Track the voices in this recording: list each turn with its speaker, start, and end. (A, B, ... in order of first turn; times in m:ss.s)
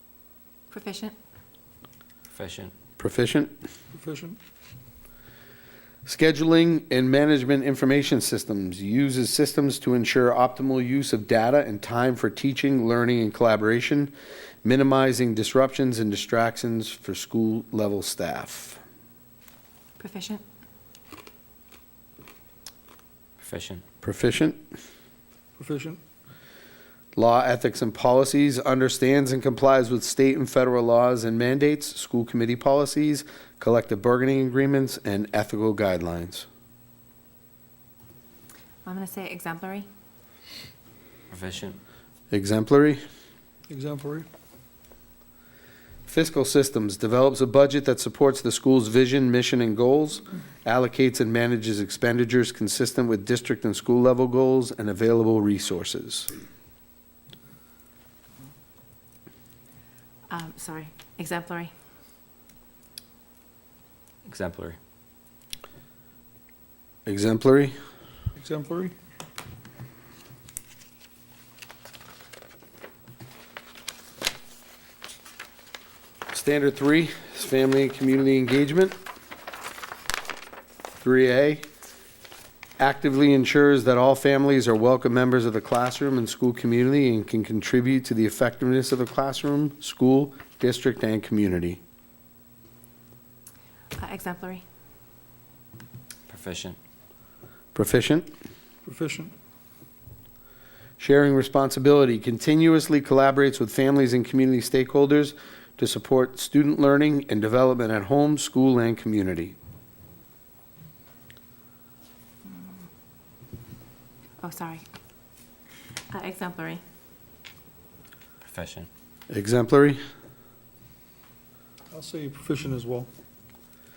0:00.7-0:01.2 A
0:02.3-0:02.7 B
0:03.0-0:03.6 C
0:03.9-0:04.4 D
0:06.1-0:14.1 C
0:14.6-0:18.8 C
0:20.0-0:20.4 A
0:23.4-0:23.8 B
0:24.0-0:24.6 C
0:25.6-0:26.0 D
0:27.2-0:36.5 C
0:38.8-0:39.9 A
0:41.3-0:41.8 B
0:42.3-0:43.0 C
0:43.7-0:44.3 D
0:46.1-0:56.3 C
1:00.3-1:01.7 A
1:04.3-1:04.8 B
1:07.1-1:07.8 C
1:08.4-1:09.0 D
1:16.3-1:19.0 C
1:21.0-1:21.7 C
1:22.8-1:31.8 C
1:34.0-1:34.6 A
1:36.3-1:36.8 B
1:37.8-1:38.3 C
1:38.9-1:39.3 D
1:41.0-1:49.6 C
1:54.4-1:54.8 A
1:56.1-1:56.8 A
1:58.4-1:58.9 B
1:59.3-2:00.0 C
2:01.9-2:03.1 D